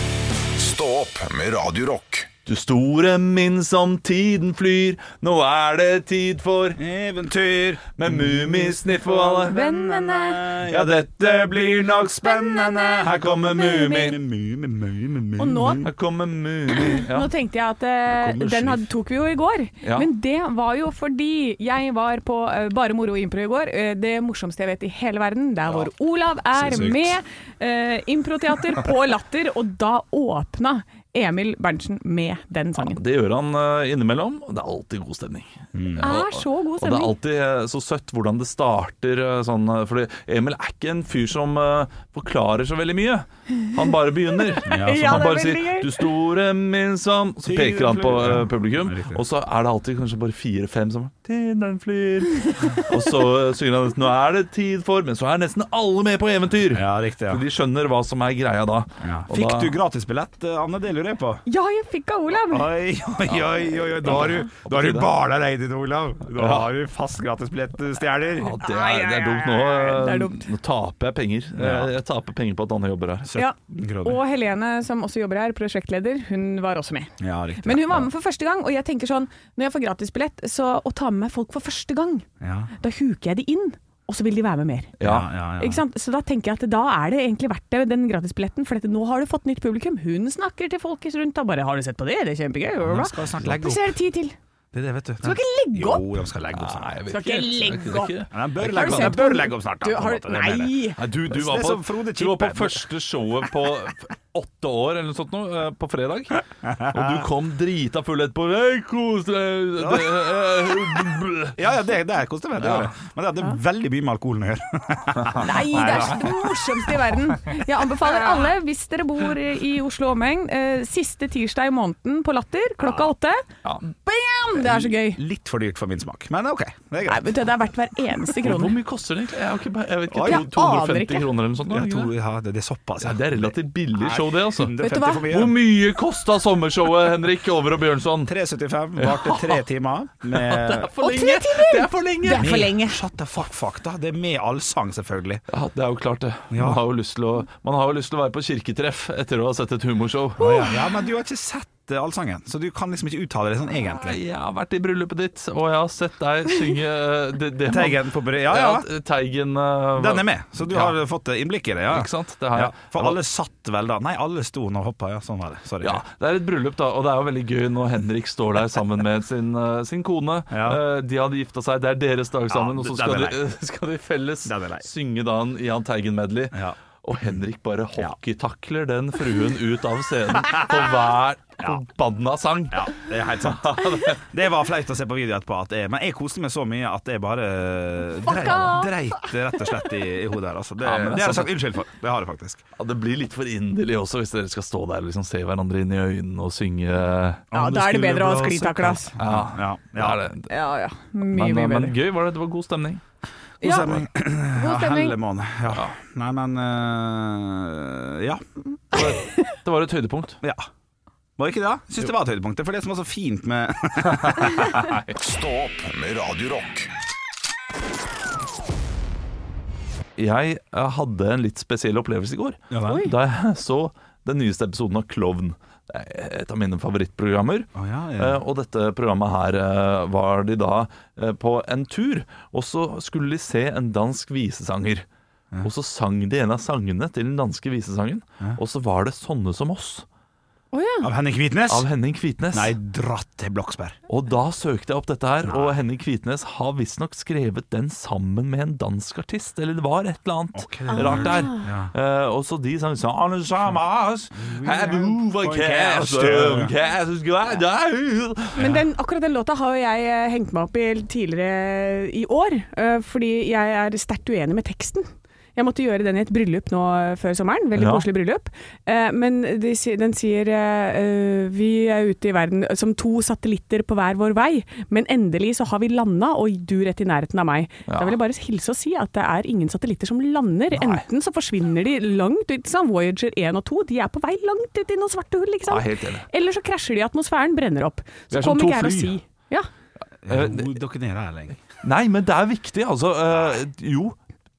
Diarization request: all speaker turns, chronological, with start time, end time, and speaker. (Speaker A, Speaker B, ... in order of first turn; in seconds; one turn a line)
Speaker A: 0.6-2.3
Speaker B: 2.5-6.8
Speaker C: 6.8-15.9
Speaker B: 8.0-9.6
Speaker D: 9.5-10.5
Speaker B: 10.7-14.2
Speaker D: 15.4-15.9
Speaker B: 15.8-17.3
Speaker D: 16.8-33.0
Speaker C: 18.1-18.9
Speaker B: 19.8-20.1
Speaker C: 26.6-27.1
Speaker B: 32.8-59.8
Speaker C: 35.7-36.1
Speaker D: 36.0-37.1
Speaker D: 44.6-46.0
Speaker C: 44.7-45.3
Speaker C: 47.5-49.2
Speaker C: 56.7-57.4
Speaker C: 59.0-61.4
Speaker D: 61.5-62.7
Speaker C: 62.5-68.6
Speaker B: 64.0-65.1
Speaker B: 66.4-66.7
Speaker B: 68.4-73.3
Speaker D: 68.6-70.5
Speaker C: 71.6-71.9
Speaker C: 73.3-74.2
Speaker D: 73.3-82.2
Speaker C: 77.2-78.1
Speaker C: 82.4-82.7
Speaker D: 82.8-84.9
Speaker B: 85.0-85.3
Speaker C: 85.0-85.8
Speaker D: 85.6-94.4
Speaker C: 92.8-94.0
Speaker C: 94.7-96.9
Speaker D: 95.2-96.0
Speaker B: 96.5-99.2
Speaker D: 97.1-98.2
Speaker C: 98.3-102.9
Speaker D: 98.7-101.0
Speaker B: 101.0-111.6
Speaker C: 106.6-107.3
Speaker C: 109.8-110.3
Speaker C: 111.6-117.0
Speaker B: 112.6-112.9
Speaker D: 115.4-125.2
Speaker C: 124.5-127.3
Speaker D: 127.1-128.8
Speaker B: 128.4-132.1
Speaker C: 130.1-130.5
Speaker D: 130.2-131.3
Speaker C: 131.7-135.6
Speaker B: 133.0-134.8
Speaker D: 134.8-135.3
Speaker B: 135.3-138.3
Speaker C: 138.2-140.9
Speaker B: 139.0-139.6
Speaker B: 140.3-142.5
Speaker D: 141.0-143.0
Speaker C: 142.3-145.4
Speaker B: 145.5-150.7
Speaker C: 146.5-146.8
Speaker C: 150.4-154.2
Speaker B: 154.0-161.0
Speaker C: 157.7-158.9
Speaker C: 160.0-166.0
Speaker B: 161.9-163.2
Speaker B: 165.8-184.2
Speaker C: 170.5-170.8
Speaker C: 172.5-173.4
Speaker C: 174.4-174.9
Speaker C: 182.7-192.6
Speaker D: 188.2-189.3
Speaker B: 190.8-191.5
Speaker B: 192.8-200.5
Speaker D: 197.5-199.2
Speaker C: 197.6-200.2
Speaker D: 200.5-202.0
Speaker B: 201.3-203.0
Speaker C: 203.6-208.4
Speaker D: 203.6-204.0
Speaker D: 204.5-205.2
Speaker B: 208.9-210.4
Speaker C: 210.4-210.7
Speaker C: 211.4-215.0
Speaker A: 215.1-216.9
Speaker B: 220.2-235.1
Speaker C: 222.7-223.1
Speaker D: 222.8-223.1
Speaker C: 227.8-228.4
Speaker B: 235.6-240.1
Speaker D: 240.7-241.1
Speaker C: 241.0-241.9
Speaker B: 241.7-242.7
Speaker C: 242.5-244.0
Speaker B: 244.1-258.7
Speaker C: 245.5-245.7
Speaker C: 250.6-251.9
Speaker D: 250.9-251.7
Speaker C: 254.4-256.7
Speaker D: 258.6-289.7
Speaker B: 267.8-268.1
Speaker B: 277.9-278.2
Speaker B: 280.7-281.0
Speaker B: 285.7-286.3
Speaker B: 288.3-289.1
Speaker C: 290.2-291.6
Speaker B: 290.3-290.7
Speaker B: 291.8-294.2